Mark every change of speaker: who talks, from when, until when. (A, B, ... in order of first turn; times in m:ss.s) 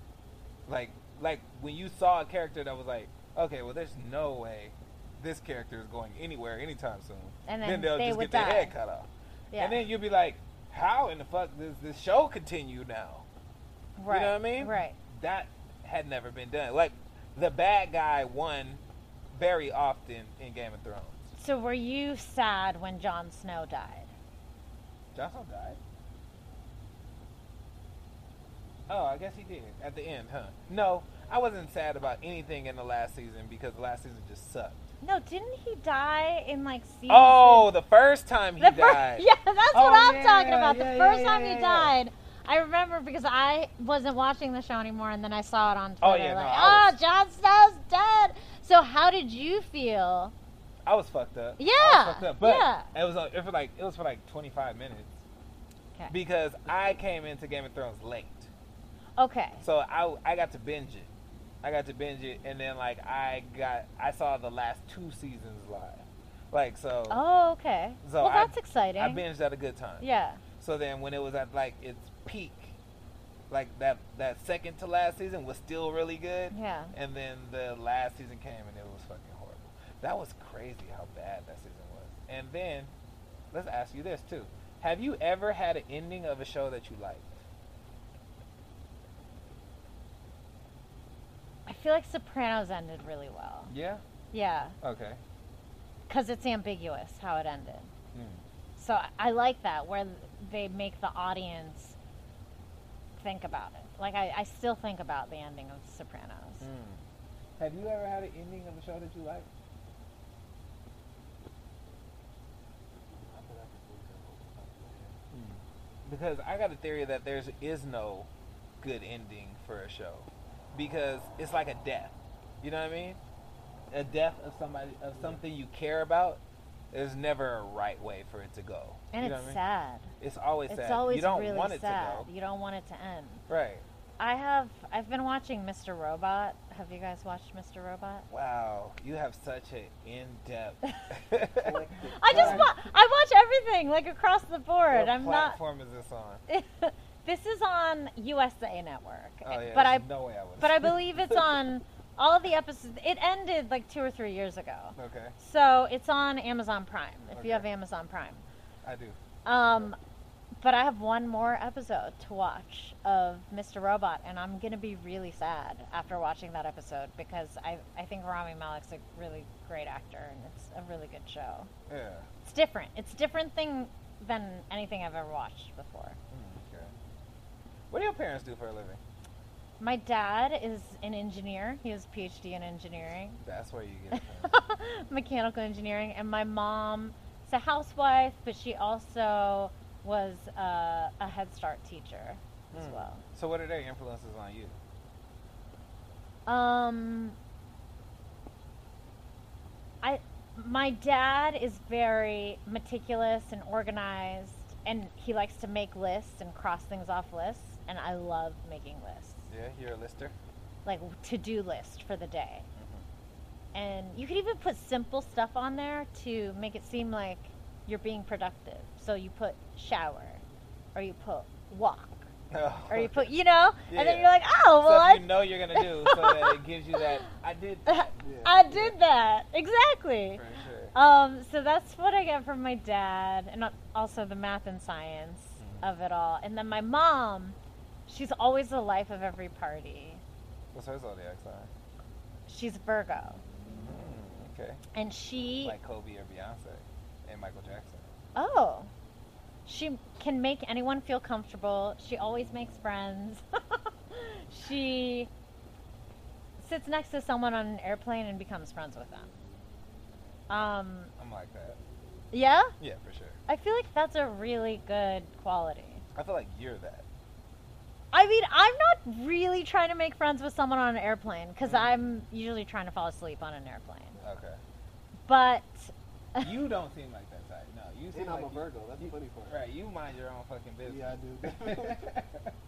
0:00.7-0:13.2 A
0:07.4-0:08.7 B
0:09.5-0:09.8 B
0:14.0-0:15.0 B
0:14.1-0:18.8 A
0:19.3-0:21.3 A
0:21.4-0:24.1 B
0:25.1-0:25.8 A
0:28.9-0:34.8 A
0:35.0-0:37.7 B
0:37.1-0:41.9 A
0:38.6-0:50.3 B
0:46.0-0:47.0 A
0:50.8-0:55.2 A
0:51.6-0:52.9 B
0:56.1-0:58.5 A
0:59.2-0:59.6 B
0:59.6-1:01.1 A
1:01.6-1:07.2 A
1:07.1-1:09.2 B
1:08.0-1:10.0 A
1:10.0-1:10.4 B
1:10.6-1:12.7 A
1:13.5-1:22.9 A
1:16.5-1:16.9 B
1:23.5-1:27.2 A
1:31.6-1:33.7 B
1:33.7-1:34.0 A
1:34.3-1:34.8 B
1:34.8-1:35.2 A
1:36.1-1:37.9 B
1:38.1-1:38.4 A
1:38.8-1:42.0 B
1:43.2-1:46.7 B
1:46.6-1:47.0 A
1:47.6-1:49.5 A
1:53.1-1:55.2 C
1:55.3-1:58.3 A
1:58.8-2:03.2 A
2:03.9-2:06.4 A
2:06.9-2:09.6 A
2:09.1-2:10.1 B
2:10.2-2:12.3 A
2:10.7-2:13.4 B
2:13.5-2:13.8 A
2:14.2-2:18.3 B
2:18.3-2:22.7 A
2:21.5-2:22.8 C
2:22.2-2:25.6 B
2:24.9-2:26.4 A
2:26.5-2:30.1 B
2:29.4-2:31.0 A
2:30.6-2:38.4 B
2:35.0-2:35.3 A
2:37.3-2:37.6 A
2:38.8-2:39.2 A
2:39.4-2:40.0 B
2:40.6-2:51.7 B
2:51.9-2:52.3 A
2:52.4-2:56.2 B
2:56.3-2:56.9 A
2:57.9-2:59.0 A
2:59.8-3:03.4 B
3:03.4-3:04.5 A
3:04.1-3:13.2 B
3:12.7-3:14.8 A
3:16.4-3:17.4 B
3:20.0-3:29.5 B
3:29.5-3:30.3 A
3:30.8-3:32.6 B
3:32.8-3:33.0 A
3:33.7-3:40.4 B
3:40.9-3:42.3 B
3:42.5-3:43.3 A
3:42.9-3:47.1 B
3:43.9-3:48.1 A
3:47.8-3:57.6 B
3:48.2-3:48.6 C
3:48.7-3:48.9 A
3:50.3-3:50.9 A
3:55.6-3:55.8 A
3:58.1-4:00.2 B
4:00.7-4:01.7 A
4:02.5-4:03.4 B
4:03.7-4:04.8 A
4:04.9-4:05.8 B
4:05.6-4:08.1 A
4:08.3-4:08.9 B
4:09.6-4:15.3 B
4:16.6-4:19.3 B
4:20.5-4:21.1 B
4:21.2-4:21.8 A
4:22.3-4:22.7 B
4:22.8-4:23.4 A
4:23.5-4:26.0 B
4:26.1-4:27.0 A
4:28.1-4:34.2 B
4:31.6-4:31.9 A
4:34.2-4:34.6 A
4:35.3-4:36.5 B
4:36.4-4:42.5 A
4:38.1-4:39.6 C
4:40.8-4:42.1 C